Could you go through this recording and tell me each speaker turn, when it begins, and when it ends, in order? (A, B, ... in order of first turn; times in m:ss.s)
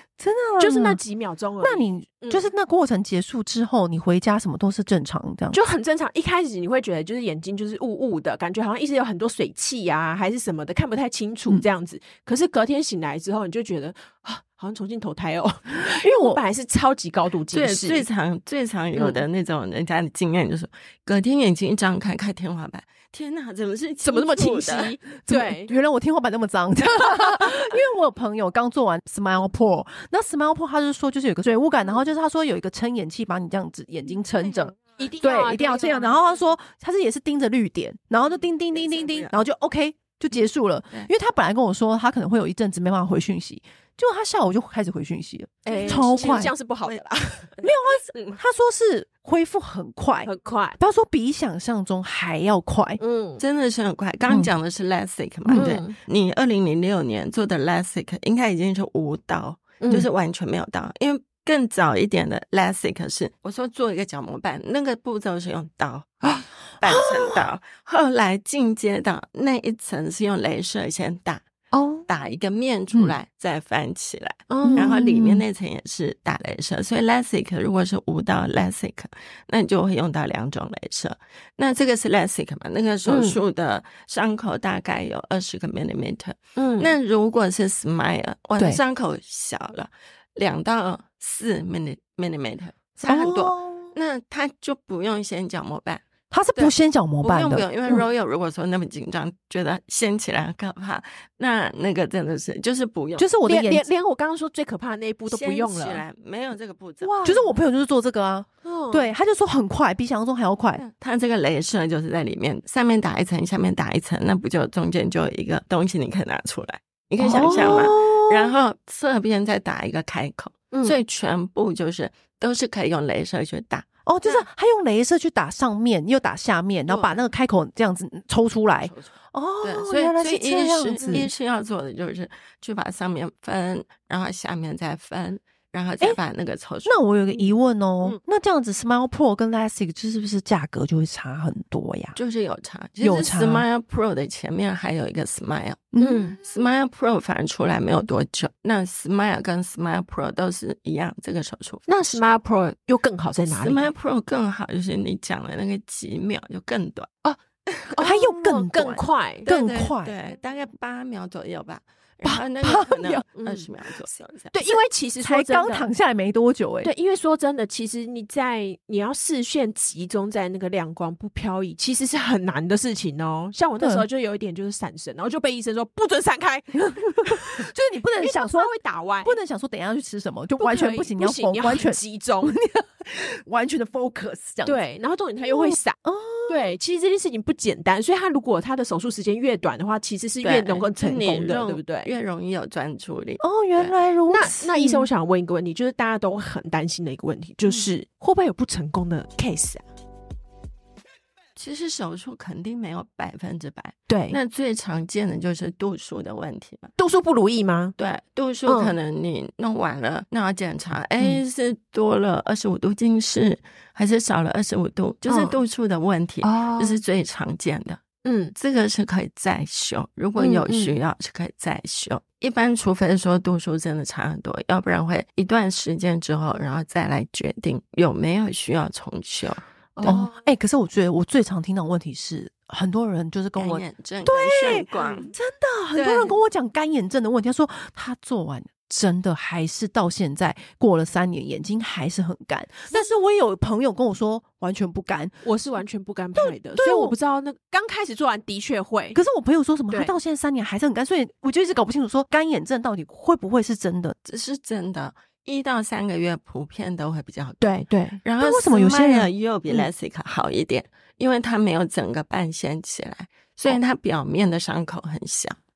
0:00.2-0:01.0 A
0:00.6-0:02.5 B
0:01.6-0:05.6 A
0:05.5-0:18.1 B
0:15.8-0:16.4 A
0:17.5-0:25.0 C
0:19.0-0:19.2 B
0:24.0-0:25.7 B
0:25.3-0:46.5 A
0:35.0-0:36.2 B
0:38.7-0:39.4 C
0:45.6-0:47.6 B
0:45.7-0:46.0 C
0:47.6-0:50.3 A
0:50.2-0:50.8 B
0:50.8-0:53.0 A
0:53.0-0:53.4 B
0:53.4-1:11.4 C
0:55.4-0:55.8 A
0:55.6-0:56.0 B
0:59.8-1:00.1 B
1:06.8-1:07.4 A
1:11.7-1:12.1 B
1:12.1-1:36.0 C
1:14.5-1:15.0 B
1:14.6-1:15.4 A
1:23.1-1:23.4 B
1:26.6-1:26.9 B
1:33.0-1:33.9 A
1:36.3-1:38.0 A
1:36.6-1:43.3 C
1:43.2-1:43.8 A
1:43.4-1:46.0 B
1:45.3-1:47.2 C
1:47.0-1:47.5 B
1:47.2-1:50.8 A
1:48.6-1:49.1 B
1:50.8-2:04.5 C
1:57.2-1:58.5 A
2:04.1-2:11.3 A
2:06.9-2:07.2 C
2:08.8-2:09.1 C
2:09.6-2:17.0 C
2:16.8-2:22.2 A
2:22.2-2:32.2 C
2:23.0-2:23.6 A
2:25.9-2:26.3 A
2:26.0-2:26.4 B
2:31.9-2:33.9 B
2:33.5-2:37.1 C
2:37.7-2:38.0 C
2:37.9-2:39.5 B
2:38.0-2:40.2 A
2:39.5-2:44.5 C
2:42.2-2:43.2 A
2:43.4-2:43.7 B
2:44.5-2:45.9 B
2:45.2-2:46.9 A
2:46.8-2:57.7 B
2:53.8-2:54.1 A
2:57.0-2:58.7 A
2:58.2-2:59.4 B
2:59.2-3:04.8 A
3:00.6-3:02.6 B
3:04.6-3:12.1 B
3:05.4-3:06.6 A
3:10.4-3:14.0 C
3:13.4-3:15.1 A
3:14.3-3:19.8 B
3:21.6-3:26.9 C
3:24.1-3:24.4 B
3:27.0-3:27.9 B
3:28.0-3:38.0 C
3:28.7-3:28.9 B
3:35.3-3:35.6 B
3:36.4-3:37.0 B
3:38.2-3:38.5 B
3:38.6-3:50.2 C
3:40.4-3:40.9 B
3:50.0-3:50.4 B
3:50.0-4:05.4 A
3:53.6-3:55.3 C
3:55.0-3:55.3 B
3:56.0-3:56.4 C
4:05.4-4:09.2 B
4:06.4-4:07.2 A
4:09.2-4:14.2 A
4:09.9-4:10.2 B
4:14.3-4:25.6 C
4:17.6-4:18.2 B
4:18.4-4:19.3 A